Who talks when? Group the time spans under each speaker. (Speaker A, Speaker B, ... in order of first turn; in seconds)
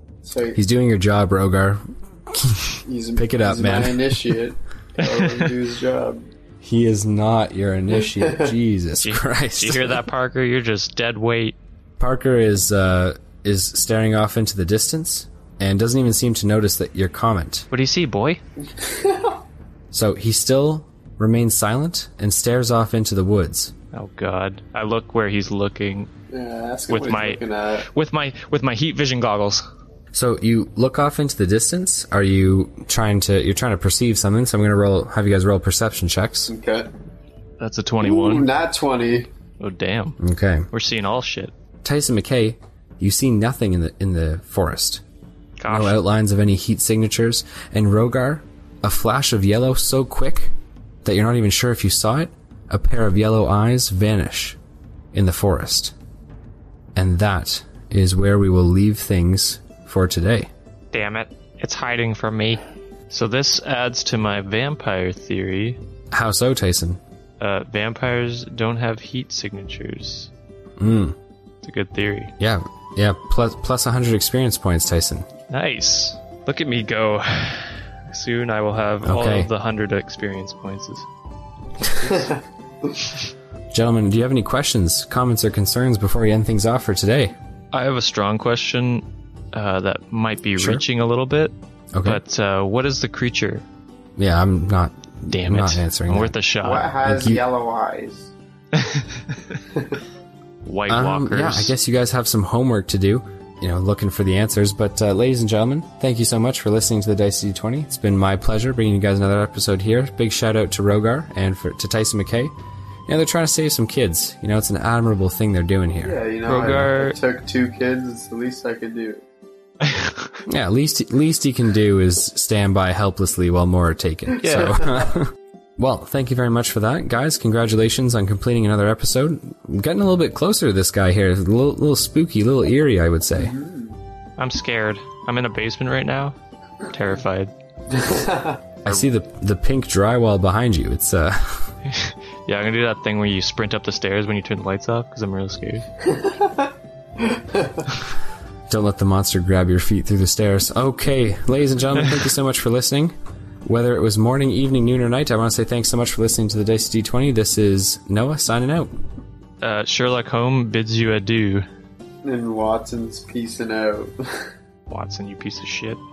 Speaker A: 0.2-0.6, 2.9-6.2, 8.1-8.6, 18.6-19.4, 26.3-27.9, 36.5-36.9, 38.0-39.3, 96.6-98.3, 99.7-100.0, 116.0-119.2, 124.6-124.8, 133.3-134.0, 137.9-138.6, 146.0-147.9, 162.2-164.5
Speaker B: 0.6-4.2, 6.6-10.0, 12.0-17.7, 19.9-23.7, 30.1-36.5, 40.2-40.7, 41.8-45.0, 45.7-50.5, 51.0-54.6, 55.1-55.9, 57.0-60.5, 66.1-67.0, 70.8-71.2, 72.4-75.3, 79.0-79.5, 83.7-87.3, 90.6-90.8, 91.9-92.2, 94.2-96.3, 97.0-97.4, 100.9-112.5, 113.1-116.2, 120.5-133.6, 138.8-141.7, 148.7-158.9
Speaker C: 5.0-5.5, 9.0-11.6, 17.7-18.4, 23.9-26.1, 26.9-29.7, 37.6-38.5, 39.6-40.2, 40.7-41.5, 45.6-46.0, 60.9-65.8, 67.4-70.3, 71.6-72.3, 75.5-81.1, 81.8-82.3, 87.7-91.5, 92.0-93.6, 95.3-96.9, 98.7-99.6, 100.7-101.8, 116.5-117.2, 119.8-120.4, 124.4-124.9, 134.4-137.5, 141.9-145.9, 159.6-161.7, 164.9-166.0